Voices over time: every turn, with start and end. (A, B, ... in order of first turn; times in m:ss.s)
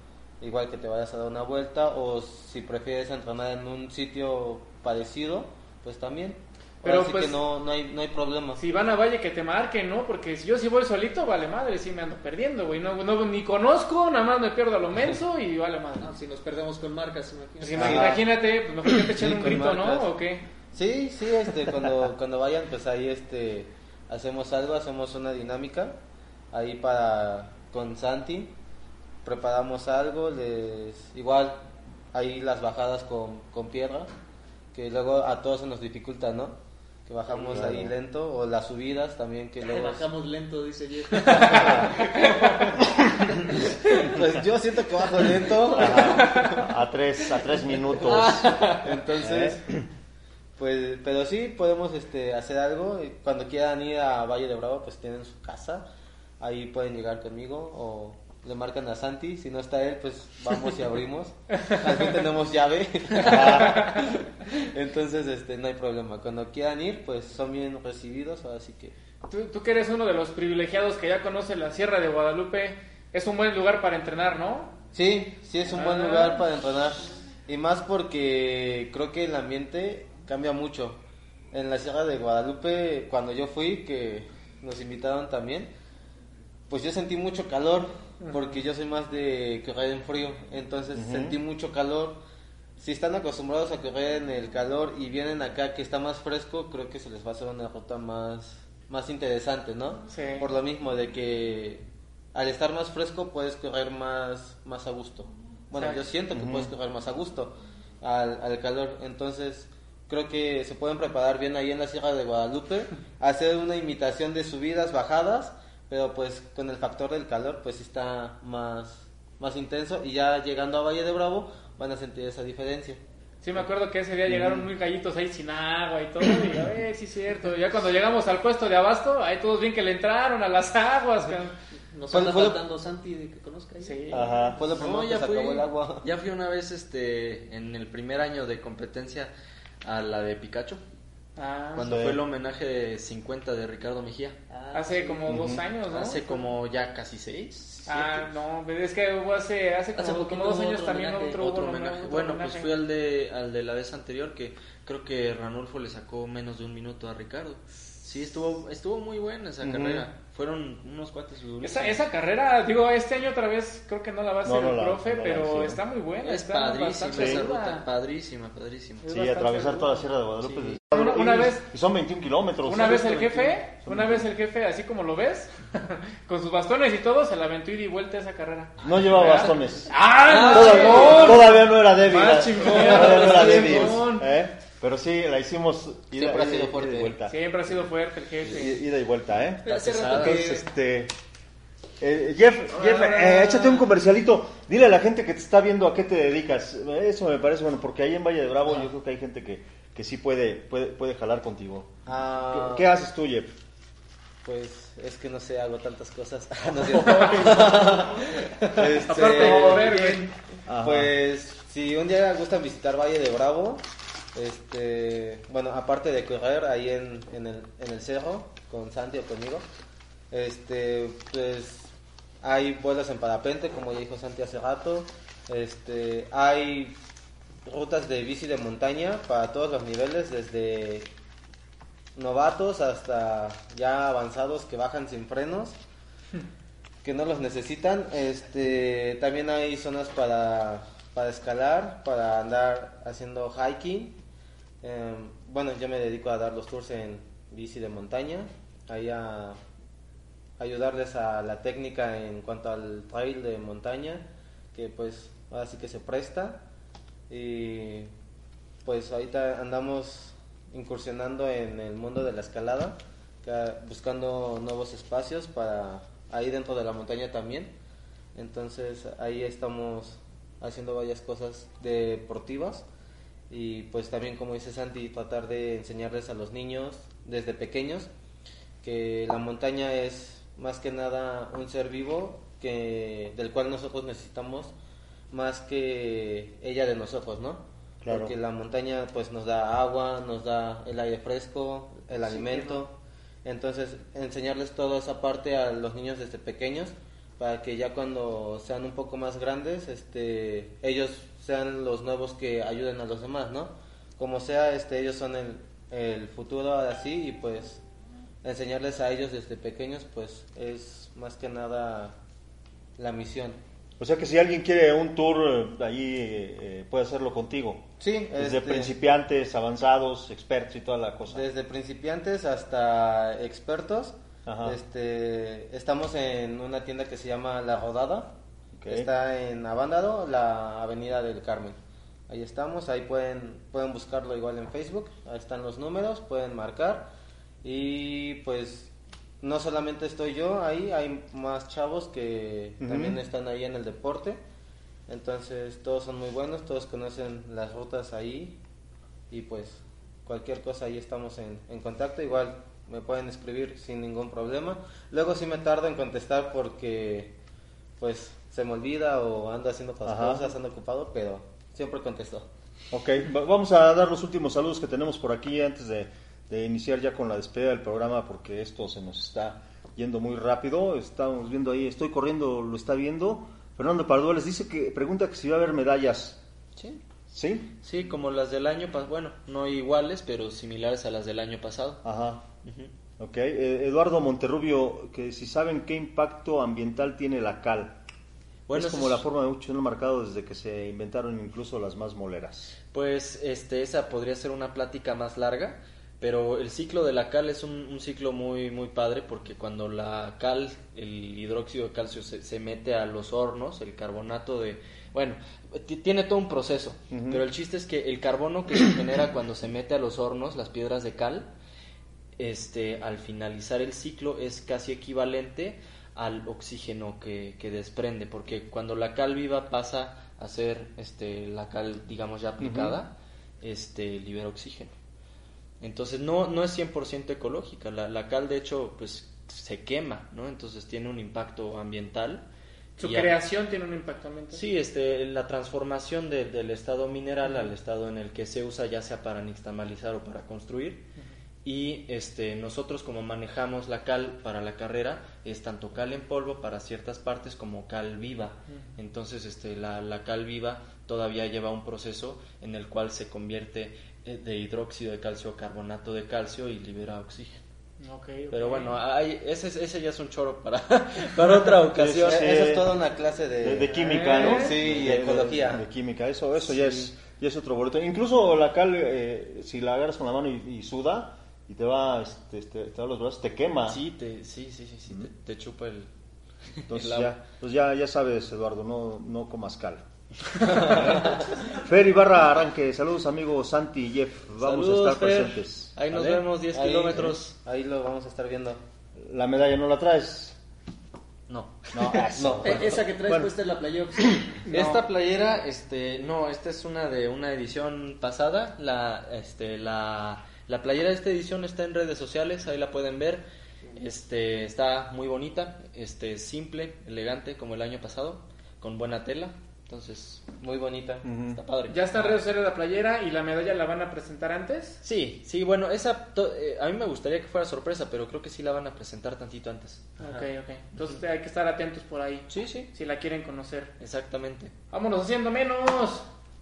0:00.4-0:08.6 A
0:06.8-0:07.4 B
0:08.6-0:16.1 B
0:16.0-0:18.1 C
0:17.6-0:20.4 B
0:17.8-0:18.2 A
0:17.8-0:18.1 D
0:19.1-0:20.1 A
0:20.7-0:26.0 A
0:26.5-0:28.6 A
0:29.2-0:34.1 A
0:34.7-0:40.1 A
0:37.4-0:37.8 C
0:37.5-0:37.9 D
0:39.6-0:42.9 C
0:41.5-0:41.9 D
0:43.5-0:43.9 C
0:43.6-0:46.6 A
0:45.7-0:46.1 C
0:45.7-0:48.6 D
0:46.2-0:46.5 B
0:48.0-0:49.0 E
0:48.7-0:49.6 A
0:49.2-0:49.9 D
0:50.6-0:55.8 A
0:56.4-1:08.9 A
1:03.2-1:03.8 D
1:03.5-1:04.0 B
1:09.3-1:14.8 B
1:14.9-1:21.0 A
1:15.7-1:16.4 B
1:21.5-1:25.7 A
1:26.7-1:32.2 A
1:28.2-1:28.6 B
1:30.9-1:31.4 D
1:32.8-2:03.0 A
1:40.1-1:40.5 B
1:46.3-1:46.7 D
2:03.4-2:11.5 B
2:04.3-2:04.7 D
2:11.9-2:14.6 C
2:12.1-2:12.6 A
2:13.8-2:14.4 B
2:14.1-2:14.6 D
2:14.6-2:16.1 A
2:14.7-2:19.3 E
2:19.8-2:20.8 E
2:21.4-2:21.9 B
2:21.7-2:24.4 E
2:21.8-2:22.2 D
2:24.5-2:25.4 C
2:24.7-2:26.5 B
2:25.3-2:25.6 D
2:25.8-2:28.3 E
2:27.8-2:32.7 B
2:29.9-2:31.4 C
2:31.4-2:42.0 E
2:39.6-2:40.0 D
2:41.6-2:47.9 B
2:44.4-2:45.8 D
2:46.2-2:49.1 E
2:47.1-2:47.4 D
2:49.0-2:50.1 B
2:49.1-2:54.2 D
2:50.9-2:51.7 B
2:52.6-3:04.3 B
2:58.8-3:07.7 D
3:00.2-3:01.1 C
3:00.4-3:01.3 E
3:06.1-3:07.2 A
3:07.3-3:08.8 B
3:08.4-3:11.1 D
3:09.6-3:10.7 C
3:09.7-3:10.5 E
3:12.0-3:23.5 D
3:12.7-3:13.9 C
3:22.1-3:22.9 A
3:24.4-3:30.3 A
3:27.0-3:27.4 B
3:29.0-3:29.9 D
3:29.0-3:30.3 B
3:30.7-3:31.1 D
3:30.8-3:33.8 A
3:34.4-3:39.6 A
3:40.3-3:47.0 A
3:47.6-3:51.1 A
3:52.2-3:55.8 A
3:57.0-4:04.2 A
4:04.8-4:09.6 A
4:10.6-4:16.6 A
4:17.3-4:18.1 A
4:18.8-4:27.7 A
4:28.4-4:32.9 A
4:33.5-4:38.1 A
4:38.8-4:44.7 A
4:45.3-5:07.8 A
4:48.0-4:48.4 D
4:52.2-4:52.8 C
5:08.4-5:12.2 A
5:13.0-5:13.6 A
5:14.0-5:21.4 D
5:18.0-5:18.9 A
5:21.3-5:28.3 A
5:24.4-5:24.8 D
5:28.8-5:29.1 D
5:28.9-5:31.8 A
5:32.3-5:37.1 A
5:37.6-5:44.4 A
5:42.8-5:43.2 D
5:45.1-5:48.6 A
5:49.3-5:57.4 A
5:58.0-6:02.5 A
6:00.0-6:00.5 D
6:02.9-6:16.4 D
6:17.3-6:17.7 D
6:17.8-6:22.0 E
6:22.0-6:22.4 D
6:22.6-6:22.9 E
6:23.2-6:28.0 D
6:28.7-6:29.2 E
6:28.7-6:32.7 D
6:32.9-6:51.5 E
6:47.1-6:47.4 D
6:52.4-7:04.9 E
7:02.6-7:03.0 D
7:05.8-7:12.4 E
7:13.0-7:13.4 E
7:13.0-7:14.6 B
7:14.5-7:21.1 E
7:17.4-7:17.7 B
7:21.6-7:37.6 E
7:38.0-7:39.0 B
7:38.5-7:42.5 E
7:41.5-7:42.9 D
7:42.2-7:45.8 A
7:43.6-7:54.0 D
7:44.0-7:44.8 B
7:46.7-7:47.1 E
7:53.9-7:56.1 E
7:56.7-7:57.4 E
7:56.9-8:00.0 D
8:00.5-8:01.7 E
8:00.6-8:06.4 D
8:04.6-8:07.6 E
8:06.7-8:08.8 A
8:09.2-8:10.6 D
8:11.5-8:12.3 E
8:11.9-8:13.5 D
8:12.4-8:13.0 A
8:12.6-8:14.6 C
8:14.2-8:14.6 D
8:14.6-8:23.4 E
8:23.9-8:30.4 E
8:30.6-8:31.3 A
8:31.2-8:31.6 D
8:31.4-8:32.4 E
8:31.9-8:35.0 B
8:35.0-8:40.4 E
8:40.2-8:43.9 B
8:42.5-8:42.9 E
8:44.0-8:44.7 E
8:44.9-8:46.2 B